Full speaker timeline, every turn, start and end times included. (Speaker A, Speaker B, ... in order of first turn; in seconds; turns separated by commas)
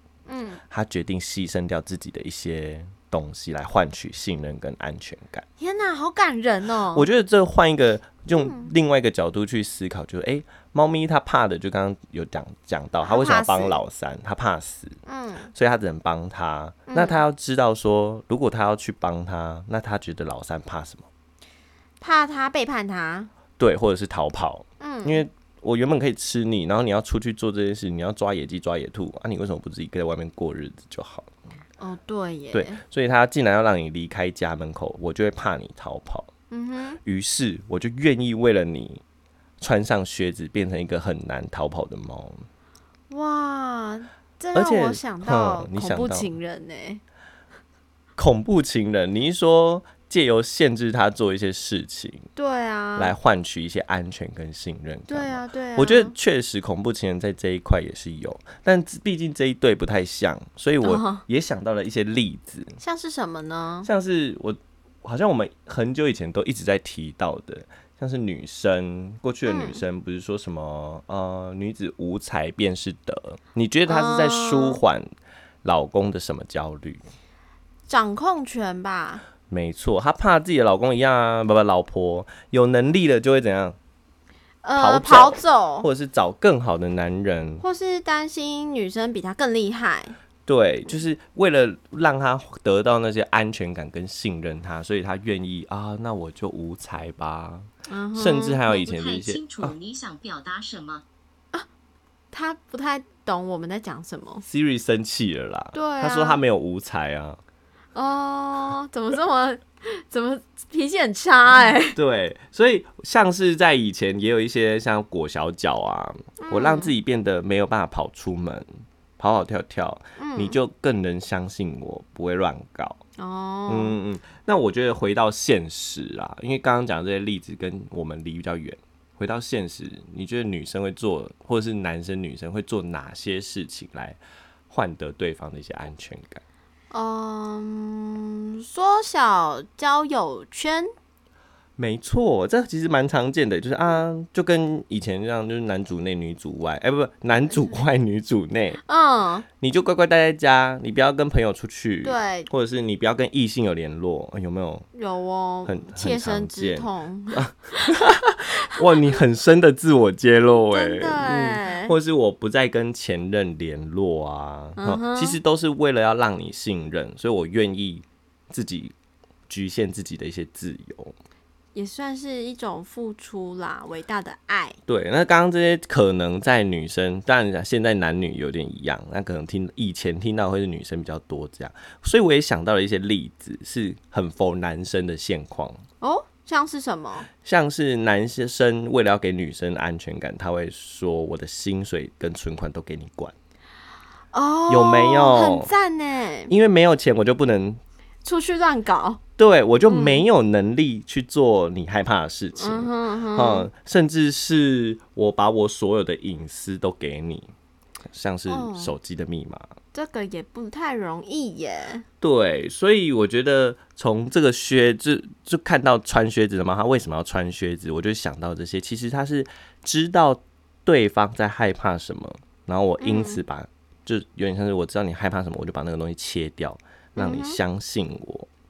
Speaker A: 0.3-0.6, Speaker B: 0.7-5.4, Speaker A: 5.6-7.1, Speaker B: 6.9-15.0, Speaker A: 8.3-8.7, Speaker A: 13.0-13.8, Speaker A: 15.1-15.5, Speaker B: 15.5-21.1, Speaker A: 16.9-17.2, Speaker A: 22.0-23.3, Speaker B: 23.6-31.3, Speaker A: 24.8-25.2, Speaker A: 31.8-32.8, Speaker B: 32.5-36.3, Speaker A: 36.5-37.0, Speaker B: 37.0-39.0, Speaker B: 39.6-42.4, Speaker A: 43.1-47.0, Speaker B: 44.5-46.3, Speaker B: 48.2-52.3, Speaker A: 52.4-53.1, Speaker B: 53.0-62.8, Speaker A: 55.1-56.1, Speaker A: 60.8-61.2, Speaker A: 62.8-63.9, Speaker B: 63.9-75.1, Speaker A: 69.5-69.8, Speaker A: 73.9-74.8, Speaker B: 75.6-77.0, Speaker A: 77.9-79.2, Speaker B: 79.5-83.8, Speaker A: 84.6-85.9, Speaker B: 84.8-87.6, Speaker A: 87.6-90.1, Speaker B: 90.5-99.7, Speaker A: 97.9-98.7, Speaker C: 98.7-101.0, Speaker A: 102.3-104.4, Speaker B: 104.4-107.4, Speaker A: 105.7-106.4, Speaker A: 107.9-112.0, Speaker B: 111.9-118.7, Speaker A: 116.4-116.9, Speaker B: 119.2-123.0, Speaker A: 120.2-120.6, Speaker A: 123.2-124.0, Speaker B: 123.7-134.2, Speaker B: 134.7-136.4, Speaker A: 136.9-140.9, Speaker B: 141.8-148.8, Speaker A: 148.8-149.4, Speaker B: 149.6-154.9, Speaker A: 152.0-152.5, Speaker A: 154.9-157.9, Speaker B: 155.7-168.9, Speaker A: 160.7-161.9, Speaker A: 164.8-165.4, Speaker B: 169.5-171.1, Speaker A: 171.7-174.8, Speaker B: 174.9-185.8, Speaker A: 186.0-187.3, Speaker B: 187.4-193.3, Speaker A: 194.3-196.5, Speaker B: 194.7-195.7, Speaker B: 196.5-197.8, Speaker A: 198.2-199.2, Speaker B: 199.4-207.5, Speaker A: 199.9-200.2, Speaker A: 202.6-203.7, Speaker B: 208.1-209.7, Speaker A: 208.5-208.9, Speaker A: 209.9-212.0, Speaker B: 212.2-228.5, Speaker A: 223.0-223.4, Speaker A: 227.2-227.6